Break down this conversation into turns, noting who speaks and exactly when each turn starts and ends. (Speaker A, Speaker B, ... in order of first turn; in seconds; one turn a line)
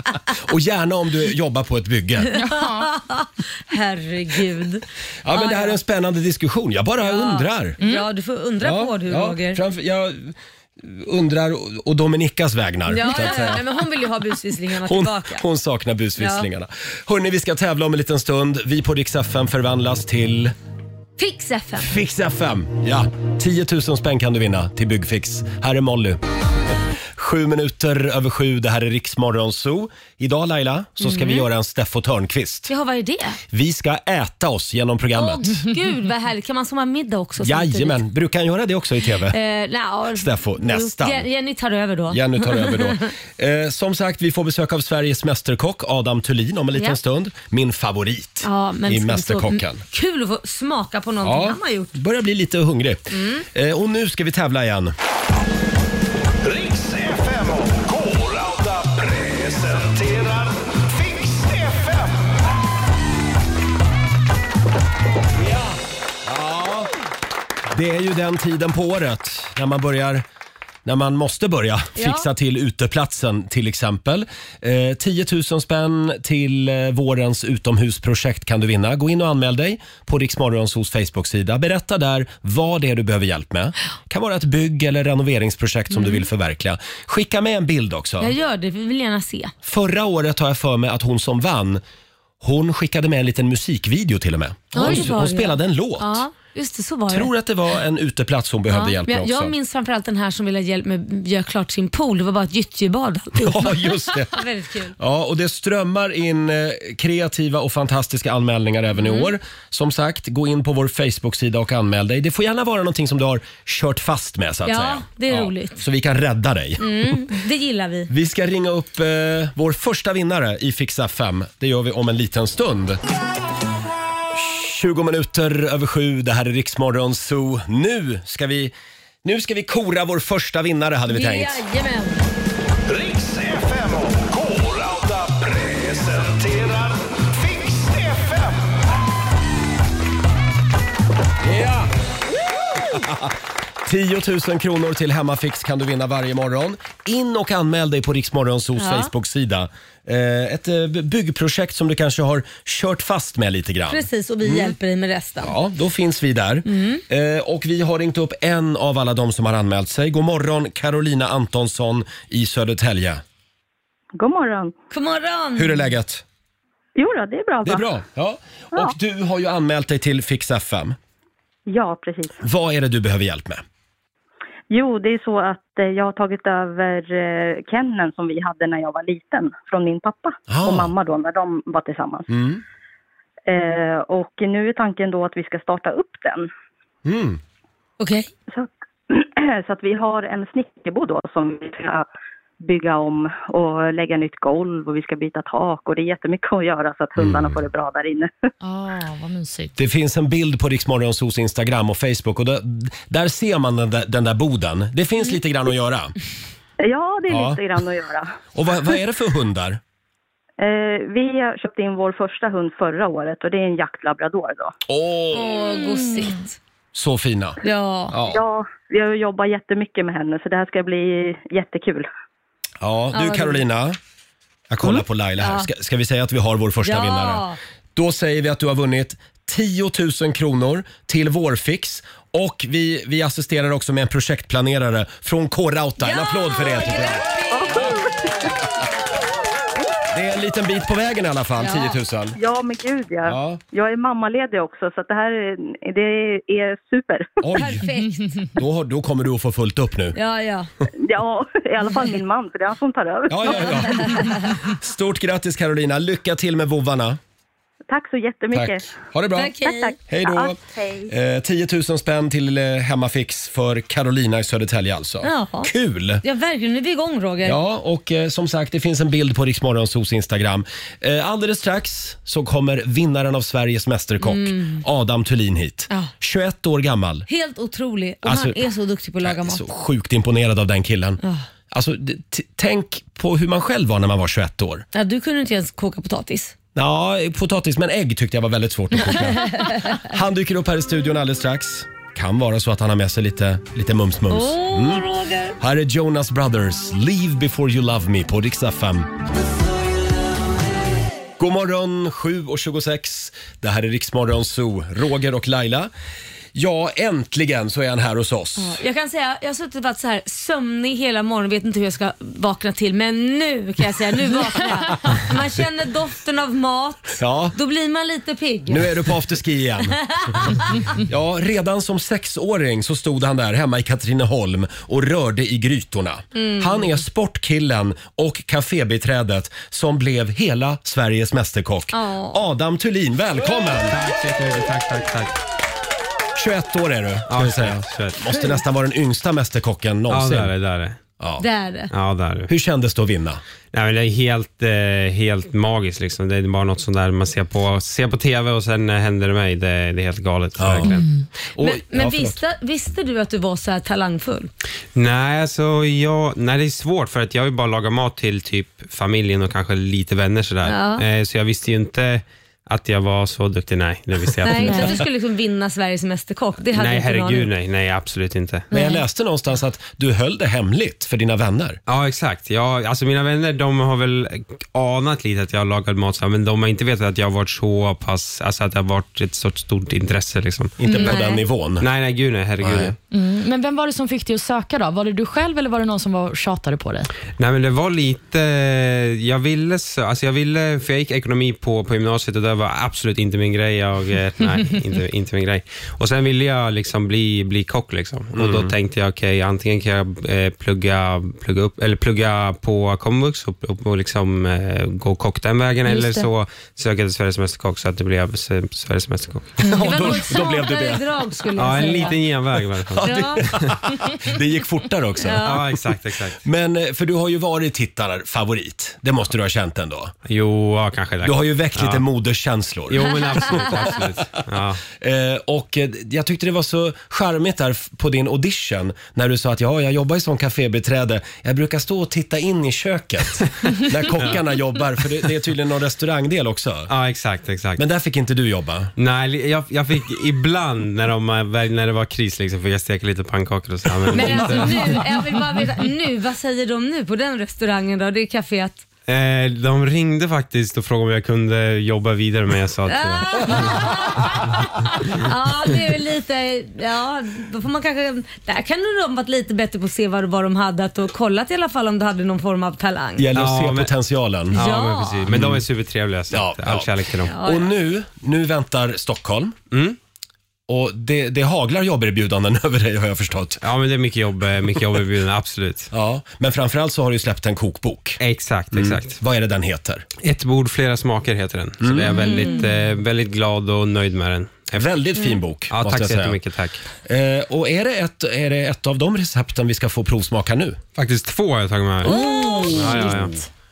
Speaker A: 0.3-2.4
Speaker B: 2.3-2.9
Speaker C: 2.4-5.8
Speaker A: 5.2-7.8
Speaker C: 7.0-9.6
Speaker A: 8.6-13.7
Speaker C: 12.9-15.4
Speaker A: 14.8-20.5
Speaker C: 16.2-16.5
Speaker C: 21.2-21.9
Speaker A: 21.8-26.2
Speaker A: 27.1-32.7
Speaker C: 31.0-31.5
Speaker C: 32.7-33.4
Speaker A: 33.5-35.6
Speaker C: 35.2-38.0
Speaker A: 37.4-39.4
Speaker C: 39.3-43.1
Speaker A: 40.1-41.3
Speaker A: 42.1-49.8
Speaker C: 48.4-51.9
Speaker A: 51.2-54.9
Speaker C: 53.1-53.5
Speaker D: 56.4-62.2
Speaker A: 66.2-66.9
Speaker A: 67.7-70.2
Speaker A: 70.8-88.3
Speaker C: 72.0-72.3
Speaker C: 86.0-86.2
Speaker C: 88.2-89.5
Speaker A: 89.6-91.8
Speaker A: 92.4-96.2
Speaker C: 94.7-97.3
Speaker A: 97.1-99.5
Speaker C: 98.7-105.0
Speaker A: 103.4-104.4
Speaker A: 105.0-117.2
Speaker C: 109.0-109.3
Speaker C: 114.7-115.8
Speaker C: 116.8-118.1
Speaker A: 118.1-123.0
Speaker A: 124.3-128.7
Speaker A: 129.2-131.6
Speaker C: 131.1-132.3
Speaker D: 132.9-138.8
Speaker A: 141.4-141.9
Speaker A: 142.9-154.8
Speaker C: 148.8-149.1
Speaker C: 153.9-155.5
Speaker A: 155.4-163.2
Speaker C: 156.7-157.0
Speaker E: 164.2-164.7
Speaker C: 164.9-165.8
Speaker A: 165.6-166.2
Speaker E: 167.0-167.9
Speaker A: 167.7-171.0
Speaker E: 171.7-172.3
Speaker A: 172.4-173.6
Speaker E: 174.7-182.3
Speaker A: 180.5-180.9
Speaker A: 182.3-182.6
Speaker E: 183.5-186.5
Speaker A: 187.1-187.4
Speaker C: 188.0-188.3
Speaker E: 188.5-192.1
Speaker E: 192.6-198.3
Speaker A: 197.2-197.6
Speaker B: 198.6-199.7
Speaker A: 199.8-206.2
Speaker E: 206.8-208.3
Speaker A: 207.3-207.6
Speaker A: 208.6-209.8
Speaker E: 210.6-214.7
Speaker A: 214.9-215.6
Speaker C: 215.3-216.6
Speaker A: 216.9-217.6
Speaker C: 217.6-218.2
Speaker A: 218.1-218.4
Speaker E: 218.2-222.1
Speaker A: 222.8-224.0
Speaker C: 223.1-223.6
Speaker A: 224.7-238.0
Speaker C: 224.8-225.7
Speaker C: 226.8-227.6
Speaker C: 236.0-238.1
Speaker E: 237.5-238.3
Speaker A: 240.1-242.4
Speaker C: 241.6-242.0
Speaker E: 242.4-247.4
Speaker A: 243.3-243.6
Speaker A: 247.4-247.9
Speaker C: 247.6-248.5
Speaker A: 248.6-250.2
Speaker C: 250.2-250.7
Speaker E: 251.0-254.2
Speaker A: 253.3-257.2
Speaker C: 253.9-254.5
Speaker E: 257.9-259.0
Speaker A: 258.5-266.2
Speaker C: 259.4-260.0
Speaker E: 259.6-261.1
Speaker C: 265.2-265.7
Speaker C: 266.2-267.6
Speaker A: 267.4-277.3
Speaker C: 274.2-274.8
Speaker C: 277.3-279.7
Speaker A: 278.2-278.7
Speaker A: 279.2-284.9
Speaker C: 284.9-286.6
Speaker A: 286.8-295.1
Speaker C: 289.4-290.0
Speaker C: 294.3-295.6
Speaker A: 295.6-299.1
Speaker A: 301.4-305.9
Speaker A: 306.5-308.8
Speaker C: 308.6-319.1
Speaker A: 317.2-317.6
Speaker A: 318.7-334.0
Speaker C: 319.9-320.8
Speaker C: 326.4-326.9
Speaker C: 331.9-332.4
Speaker F: 333.8-335.3
Speaker A: 336.4-340.5
Speaker F: 337.3-338.2
Speaker C: 338.3-338.6
Speaker F: 340.1-341.0
Speaker A: 341.2-341.4
Speaker C: 341.4-341.9
Speaker F: 341.9-342.5
Speaker A: 342.5-343.4
Speaker F: 343.7-351.1
Speaker A: 350.6-351.0
Speaker A: 351.6-352.4
Speaker C: 351.6-354.5
Speaker F: 354.9-365.0
Speaker C: 360.7-361.0
Speaker C: 364.4-367.5
Speaker F: 366.7-368.7
Speaker A: 368.7-371.8
Speaker C: 368.7-369.0
Speaker F: 371.9-380.8
Speaker A: 380.8-381.9
Speaker C: 380.9-381.4
Speaker F: 381.8-383.0
Speaker A: 382.6-382.9
Speaker B: 383.1-387.1
Speaker F: 387.4-409.6
Speaker A: 398.4-398.7
Speaker B: 405.9-406.3
Speaker A: 409.6-411.1
Speaker C: 409.7-412.2
Speaker F: 411.6-413.8
Speaker A: 411.7-412.1
Speaker A: 412.9-420.1
Speaker C: 413.0-413.4
Speaker C: 415.2-415.6
Speaker F: 415.4-416.4
Speaker F: 420.3-422.1
Speaker A: 421.2-424.3
Speaker F: 422.9-424.8
Speaker A: 424.9-436.9
Speaker F: 436.9-437.8
Speaker A: 437.8-438.9
Speaker F: 439.0-445.0
Speaker A: 444.1-444.9
Speaker C: 444.1-448.8
Speaker F: 449.1-453.8
Speaker C: 452.9-463.3
Speaker A: 463.2-464.6
Speaker F: 463.3-463.9
Speaker F: 464.5-467.4
Speaker C: 464.5-465.3
Speaker A: 465.3-465.6
Speaker A: 466.3-469.6
Speaker C: 467.3-467.7
Speaker F: 469.7-470.0
Speaker A: 470.7-473.6
Speaker F: 473.6-475.9
Speaker A: 475.9-478.2
Speaker F: 478.2-479.2
Speaker A: 478.7-480.1
Speaker F: 480.2-484.9
Speaker A: 481.8-482.4
Speaker C: 482.2-482.7
Speaker A: 484.7-486.4
Speaker F: 485.7-486.8
Speaker A: 487.0-490.8
Speaker F: 491.0-493.4
Speaker C: 492.1-493.1
Speaker A: 492.1-493.2